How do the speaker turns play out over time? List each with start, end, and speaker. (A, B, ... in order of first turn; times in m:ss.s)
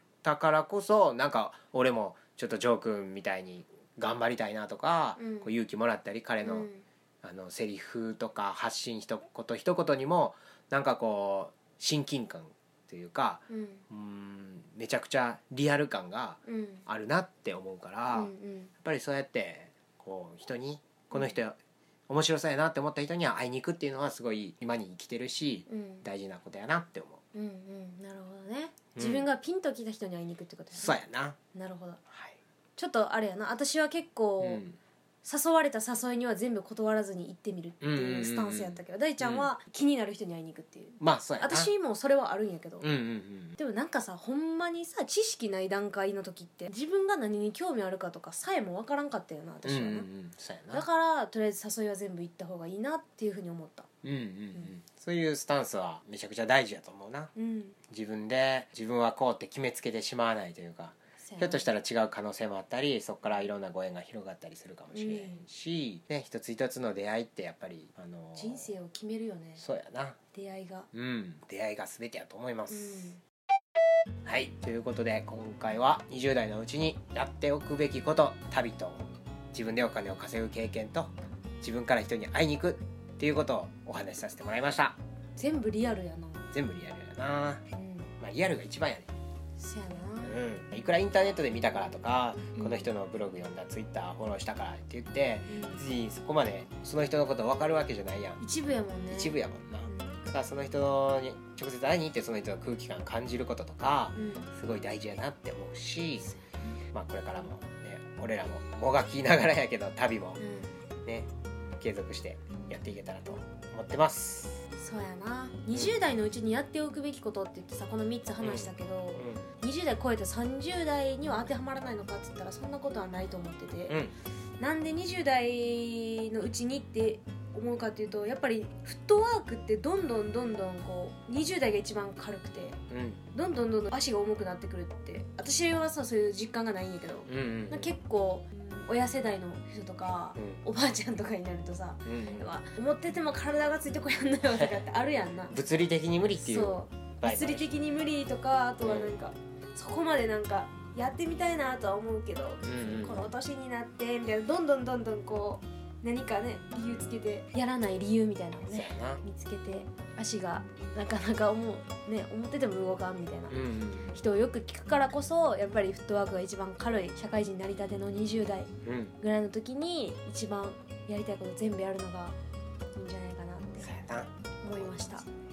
0:00.2-0:06.7 A
0:05.2-0:05.5 B
0:06.4-0:06.8 B
0:07.2-0:18.3 A
0:13.5-0:13.8 B
0:16.4-0:16.8 B
0:18.1-0:18.7 B
0:18.8-0:21.6 A
0:22.1-0:27.2 A
0:25.7-0:26.0 B
0:27.3-0:31.0 B
0:28.9-0:29.3 A
0:30.7-0:31.4 A
0:31.5-0:32.0 B
0:32.1-0:32.4 A
0:32.8-0:34.6 B
0:34.4-0:34.8 A
0:35.2-0:42.8 B
0:37.8-0:39.5 A
0:41.0-0:41.7 A
0:42.8-0:43.6 A
0:43.6-0:50.1 B
0:49.6-0:50.8 A
0:50.7-0:53.9 B
0:54.0-0:57.3 A
0:57.4-0:57.8 B
0:57.9-1:08.7 A
1:01.2-1:01.7 B
1:04.9-1:05.4 B
1:08.3-1:09.6 B
1:09.6-1:10.2 A
1:10.3-1:10.9 B
1:10.9-1:13.1 A
1:12.7-1:13.2 B
1:14.2-1:25.0 A
1:25.4-1:26.5 B
1:26.5-1:27.6 A
1:27.7-1:28.1 B
1:28.2-1:29.1 A
1:29.6-1:30.4 B
1:30.2-1:38.4 A
1:32.6-1:32.8 B
1:35.5-1:35.8 B
1:38.4-1:40.2 B
1:39.1-1:46.3 A
1:44.1-1:44.5 B
1:46.2-1:46.8 B
1:46.9-1:50.4 A
1:50.4-1:50.7 B
1:51.8-1:54.6 A
1:54.8-2:04.0 B
1:55.7-1:56.0 A
1:58.4-1:59.5 A
2:03.9-2:04.1 A
2:04.6-2:12.8 B
2:12.9-2:13.2 A
2:13.3-2:25.5 B
2:17.2-2:17.9 A
2:20.4-2:20.6 A
2:22.0-2:22.5 A
2:24.5-2:24.8 A
2:25.5-2:27.7 A
2:26.4-2:43.6 B
2:28.8-2:29.1 A
2:32.6-2:33.3 A
2:38.7-2:39.2 A
2:43.5-2:44.1 A
2:44.1-2:52.4 B
2:48.8-2:49.1 A
2:52.9-2:53.9 B
2:53.8-2:54.3 A
2:54.6-2:55.2 B